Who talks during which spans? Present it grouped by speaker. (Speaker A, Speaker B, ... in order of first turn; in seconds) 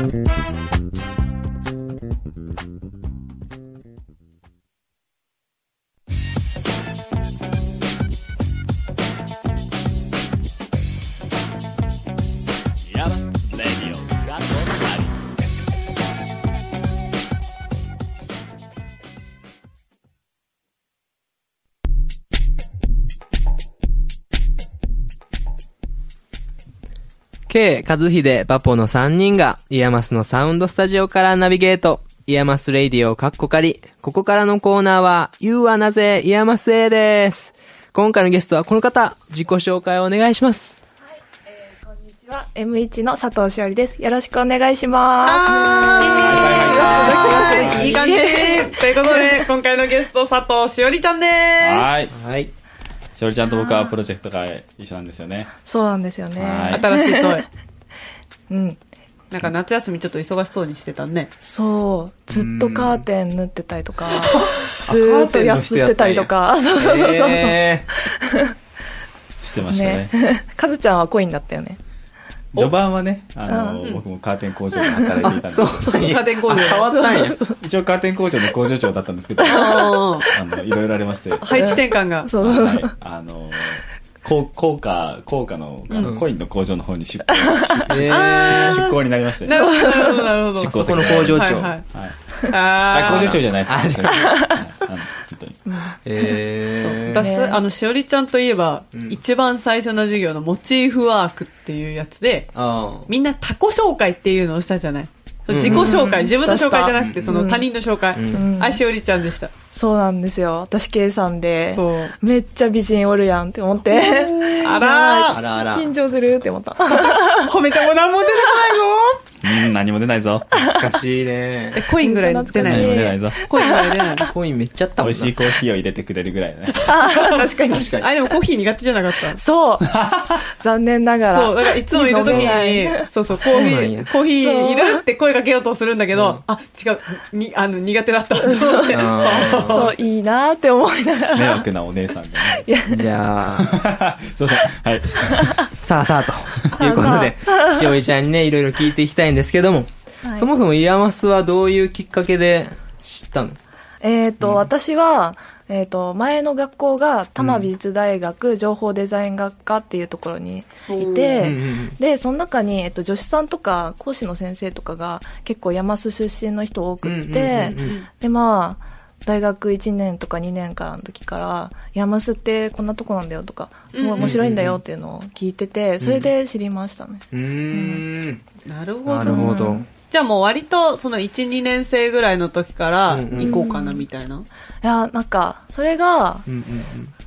Speaker A: 12.9-15.2, 46.2-47.8, 51.6-52.1, 53.1-55.5, 56.4-56.8, 69.4-70.1, 72.5-76.1, 77.6-81.8, 82.4-89.6, 90.5-92.1, 92.9-95.6, 119.4-120.6, 122.6-123.4, 125.0-126.9, 129.9-130.4, 141.3-142.7, 143.6-145.7
Speaker B: 27.5-40.8, 47.3-48.0, 52.1-52.5, 62.3-63.0, 64.2-67.9, 75.3-77.4, 86.0-86.2, 87.9-88.9, 90.7-91.8, 93.1-94.5, 96.0-97.3, 98.9-99.2, 102.5-103.1, 105.5-106.0, 107.0-107.5, 108.1-108.5, 115.3-115.9, 120.7-121.9, 124.2-125.3, 127.7-128.1, 132.3-132.6, 133.4-134.1, 136.1-136.4, 138.9-139.9, 142.9-143.8, 145.7-153.6, 154.4-154.7, 157.4-157.7, 161.4-162.0, 167.0-168.0, 174.2-174.8, 176.0-176.3, 177.3-178.4, 179.1-179.8, 183.1-183.6, 186.5-187.1
Speaker C: 41.5-49.4, 53.6-53.9, 55.6-57.4, 58.5-58.8, 61.4-68.5, 69.7-71.8, 73.5-73.8, 74.8-75.2, 76.9-77.6, 79.4-80.3, 81.5-82.9, 87.5-87.8, 89.5-90.3, 94.1-94.6, 95.7-96.4, 97.1-97.6, 105.6-107.7, 108.3-108.8, 109.7-117.5, 122.0-124.0, 126.8-128.0, 129.3-129.9, 130.5-133.0, 134.4-135.0, 138.4-139.0, 139.5-141.6, 142.5-143.0, 145.3-145.6, 146.7-147.9, 150.2-150.5, 154.0-178.0, 179.2-179.8, 183.4-184.0, 184.8-186.4
Speaker D: 45.2-51.9, 56.7-57.5, 59.3-61.3, 76.0-77.1, 79.4-80.3, 81.4-82.3, 85.9-86.1, 88.1-91.8, 92.5-93.4, 96.8-102.5, 103.1-109.5, 111.7-112.1, 113.9-115.4, 117.4-119.2, 121.7-124.3, 126.9-129.4, 131.3-140.0, 160.9-161.5, 167.8-168.0, 173.9-174.3, 178.7-184.5